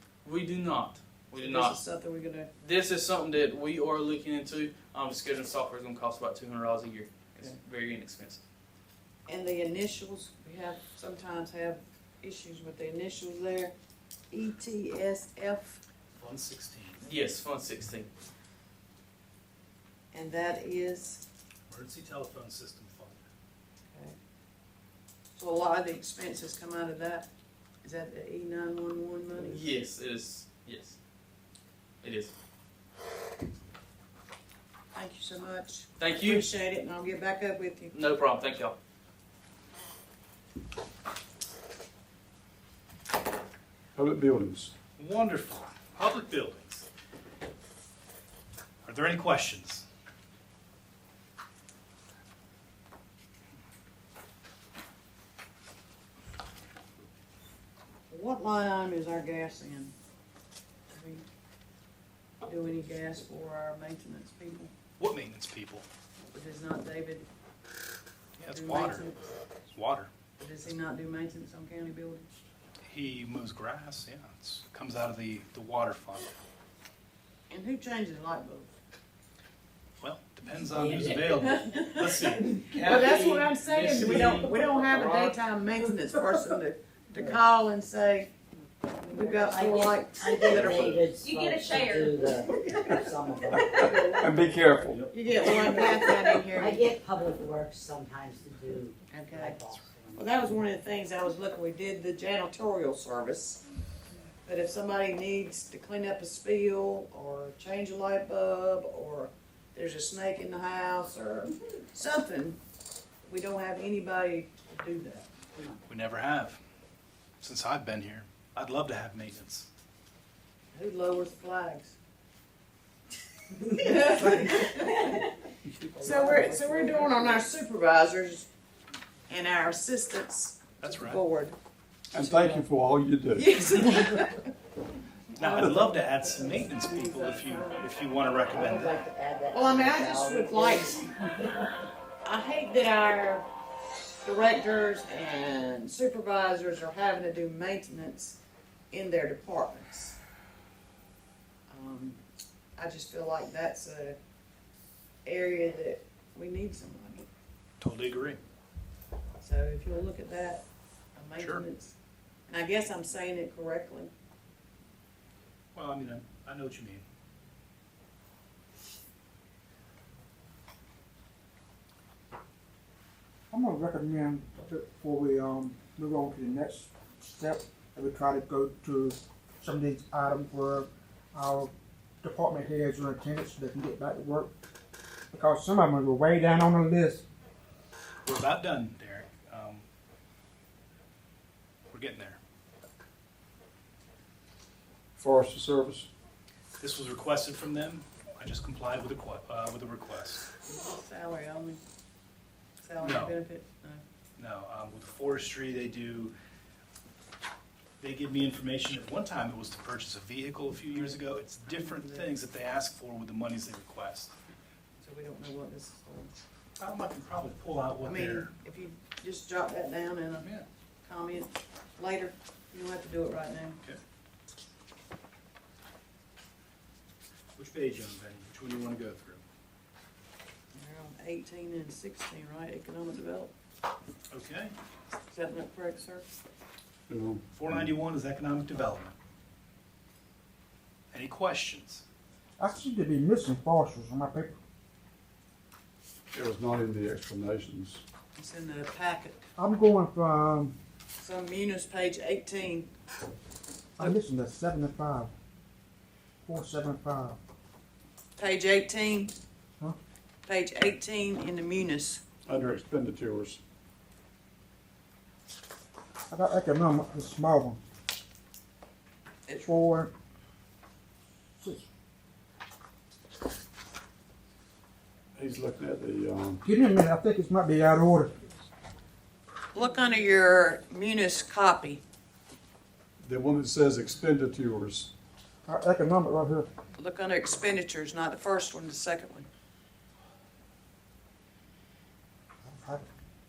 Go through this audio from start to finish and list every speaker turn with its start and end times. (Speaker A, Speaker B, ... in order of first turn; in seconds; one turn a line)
Speaker A: 0.2-1.8
Speaker B: 1.4-2.5
Speaker A: 2.6-8.4
Speaker B: 9.3-13.7
Speaker B: 14.3-15.8
Speaker C: 16.2-17.1
Speaker A: 17.0-18.1
Speaker B: 20.1-21.2
Speaker C: 21.7-23.3
Speaker B: 23.9-24.2
Speaker B: 25.4-27.3
Speaker B: 27.8-29.7
Speaker A: 29.4-31.0
Speaker A: 32.0-32.3
Speaker B: 34.9-38.0
Speaker A: 36.0-36.5
Speaker A: 37.9-38.8
Speaker D: 44.0-44.7
Speaker C: 45.0-46.9
Speaker C: 48.9-49.9
Speaker B: 58.1-59.9
Speaker B: 60.9-61.2
Speaker B: 62.4-64.7
Speaker C: 65.0-65.9
Speaker B: 66.3-67.3
Speaker C: 68.4-69.1
Speaker B: 68.5-69.3
Speaker C: 69.7-70.1
Speaker B: 70.4-72.3
Speaker C: 72.9-76.3
Speaker B: 77.5-78.7
Speaker C: 80.0-82.6
Speaker E: 80.8-81.2
Speaker B: 81.3-88.3
Speaker A: 82.6-85.3
Speaker B: 89.1-91.1
Speaker E: 89.1-94.7
Speaker D: 93.8-95.1
Speaker B: 95.1-96.9
Speaker E: 96.5-100.5
Speaker B: 99.1-99.6
Speaker B: 100.1-103.6
Speaker B: 104.5-112.6
Speaker B: 113.3-115.3
Speaker C: 115.9-116.6
Speaker C: 117.4-119.7
Speaker B: 120.7-122.0
Speaker B: 123.6-125.3
Speaker E: 125.6-127.4
Speaker B: 126.0-128.5
Speaker B: 129.3-131.6
Speaker C: 130.8-131.2
Speaker D: 132.1-133.5
Speaker B: 132.2-132.6
Speaker B: 133.3-134.5
Speaker C: 135.3-139.0
Speaker B: 135.4-137.8
Speaker D: 135.6-135.8
Speaker E: 138.5-141.3
Speaker B: 139.5-141.1
Speaker B: 142.2-143.5
Speaker B: 144.2-148.4
Speaker B: 148.9-150.2
Speaker B: 151.7-152.2
Speaker B: 152.8-154.2
Speaker B: 155.2-157.3
Speaker C: 157.8-158.4
Speaker B: 159.4-161.9
Speaker C: 161.4-161.7
Speaker B: 162.5-164.1
Speaker C: 165.7-167.1
Speaker F: 173.5-181.7
Speaker F: 182.2-184.5
Speaker F: 185.3-187.2
Speaker C: 188.2-189.9
Speaker C: 191.9-192.4
Speaker D: 195.2-196.1
Speaker C: 196.8-200.5
Speaker B: 200.7-201.8
Speaker B: 202.8-204.0
Speaker C: 203.0-203.4
Speaker C: 204.4-206.3
Speaker C: 208.0-214.3
Speaker B: 210.9-212.3
Speaker B: 215.0-216.4
Speaker C: 216.8-218.5
Speaker B: 218.0-220.5
Speaker C: 220.4-220.7
Speaker B: 221.1-223.8
Speaker C: 227.6-229.4
Speaker B: 230.7-233.5
Speaker C: 234.3-234.8
Speaker B: 235.3-236.3
Speaker D: 237.1-238.0
Speaker C: 237.5-239.2
Speaker C: 241.1-242.0
Speaker F: 242.6-244.6
Speaker D: 246.3-248.0
Speaker B: 248.3-249.5
Speaker F: 249.6-250.8
Speaker B: 251.2-252.9
Speaker F: 254.0-255.3
Speaker F: 256.5-257.4
Speaker B: 258.4-259.3
Speaker B: 260.5-262.2
Speaker D: 262.5-263.6
Speaker F: 266.3-267.8
Speaker F: 269.5-270.1
Speaker F: 271.6-271.9
Speaker D: 275.4-276.6
Speaker F: 276.6-278.3
Speaker B: 279.7-282.0
Speaker D: 283.2-285.1
Speaker F: 285.7-286.7
Speaker B: 287.0-289.5
Speaker F: 292.7-293.1